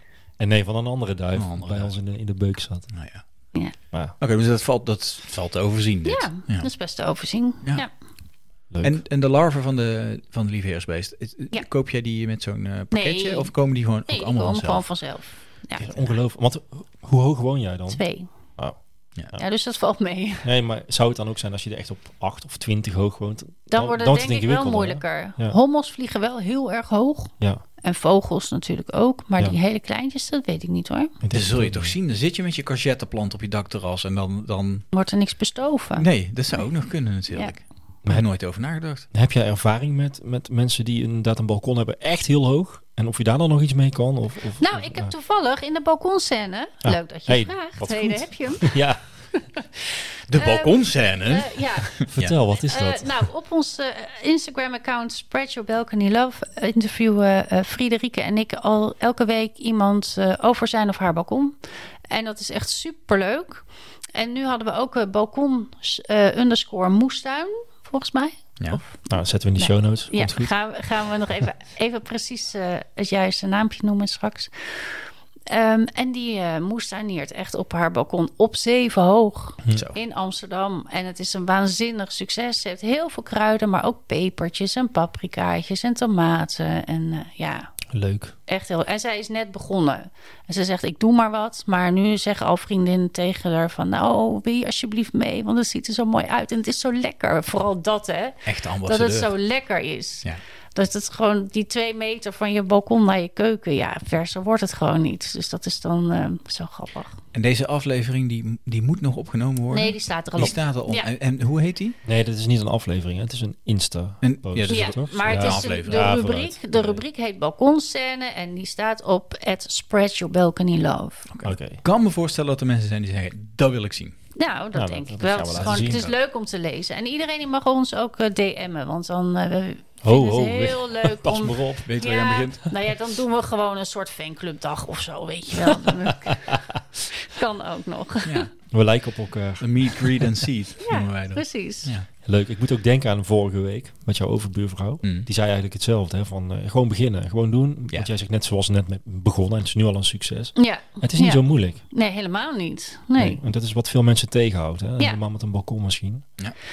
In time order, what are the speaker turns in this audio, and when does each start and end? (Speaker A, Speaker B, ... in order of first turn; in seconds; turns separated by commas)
Speaker A: 0.4-2.9, Speaker B: 1.4-1.9, Speaker B: 2.9-3.2, Speaker B: 4.2-6.7, Speaker C: 6.0-7.9, Speaker A: 8.7-9.0, Speaker B: 8.8-14.8, Speaker C: 12.9-16.0, Speaker A: 15.8-18.1, Speaker C: 17.9-18.3, Speaker C: 19.4-20.5, Speaker A: 20.4-25.6, Speaker C: 23.7-31.1, Speaker A: 31.2-31.9, Speaker B: 31.3-34.9, Speaker C: 34.9-36.1, Speaker B: 36.0-39.1, Speaker A: 38.0-38.3, Speaker A: 39.1-45.1, Speaker C: 44.6-63.6, Speaker A: 46.8-49.0, Speaker B: 50.3-52.4, Speaker A: 52.1-53.2, Speaker C: 64.2-87.8, Speaker A: 69.1-70.5, Speaker B: 79.7-80.0, Speaker A: 87.9-88.3, Speaker C: 88.5-107.2, Speaker B: 98.5-99.3, Speaker B: 107.3-112.0, Speaker C: 109.7-111.1, Speaker A: 112.0-117.0, Speaker B: 114.2-116.2, Speaker C: 114.7-121.3, Speaker B: 121.3-124.2, Speaker A: 121.4-121.8, Speaker C: 124.4-136.6, Speaker A: 124.7-126.1, Speaker B: 125.5-126.1, Speaker A: 130.0-131.9, Speaker B: 131.9-132.7, Speaker C: 137.2-138.5, Speaker B: 138.2-138.5, Speaker A: 138.7-140.3, Speaker B: 139.6-142.1, Speaker C: 140.8-141.9, Speaker A: 142.2-151.8, Speaker C: 150.6-153.4, Speaker A: 153.2-156.2